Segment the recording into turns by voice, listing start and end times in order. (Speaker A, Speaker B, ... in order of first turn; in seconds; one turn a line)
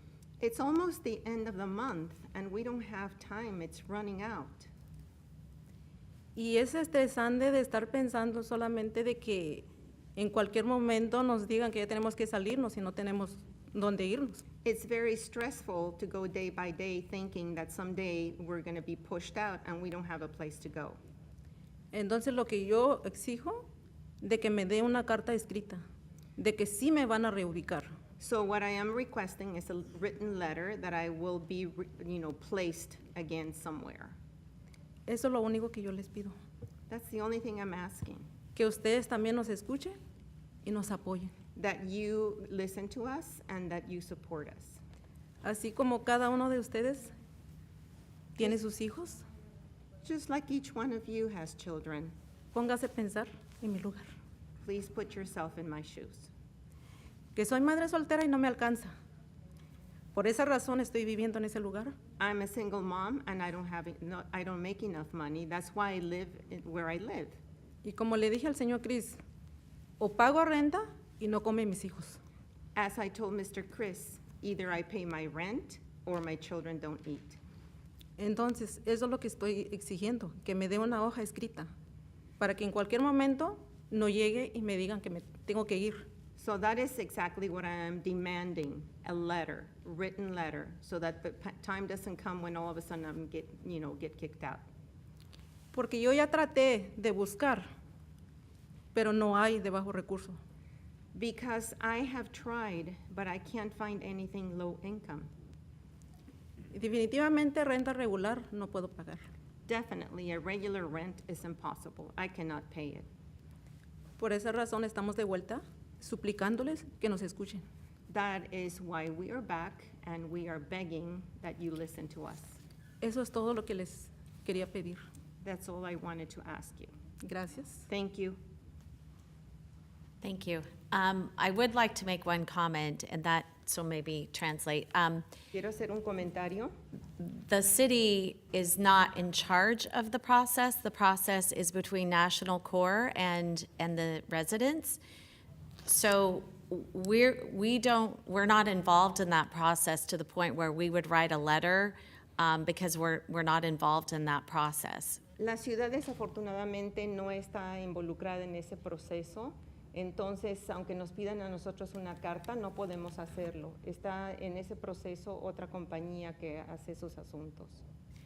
Speaker A: 0.4-4.7
Speaker B: 6.3-14.4
Speaker A: 14.6-21.0
Speaker B: 21.9-23.7
Speaker B: 24.2-25.8
Speaker B: 26.4-27.9
Speaker A: 28.2-34.2
Speaker B: 35.1-36.4
Speaker A: 36.9-38.3
Speaker B: 38.5-40.0
Speaker B: 40.6-41.3
Speaker A: 41.5-44.8
Speaker B: 45.4-47.1
Speaker B: 48.4-49.2
Speaker A: 50.0-52.1
Speaker B: 52.5-54.1
Speaker A: 54.6-56.3
Speaker B: 57.3-58.9
Speaker B: 60.1-61.9
Speaker A: 62.2-67.4
Speaker B: 67.8-69.2
Speaker B: 70.0-72.2
Speaker A: 72.7-77.4
Speaker B: 78.2-81.7
Speaker B: 82.4-86.1
Speaker A: 86.4-94.7
Speaker B: 95.7-97.7
Speaker B: 98.9-100.4
Speaker A: 101.1-105.3
Speaker B: 106.7-109.2
Speaker A: 109.7-113.1
Speaker B: 114.2-117.7
Speaker A: 118.1-122.6
Speaker B: 123.0-125.0
Speaker A: 125.4-126.9
Speaker B: 127.2-127.8
Speaker A: 127.9-128.4
Speaker C: 130.2-135.2
Speaker A: 135.5-136.7
Speaker C: 137.2-145.0
Speaker C: 145.8-155.2
Speaker A: 155.4-167.8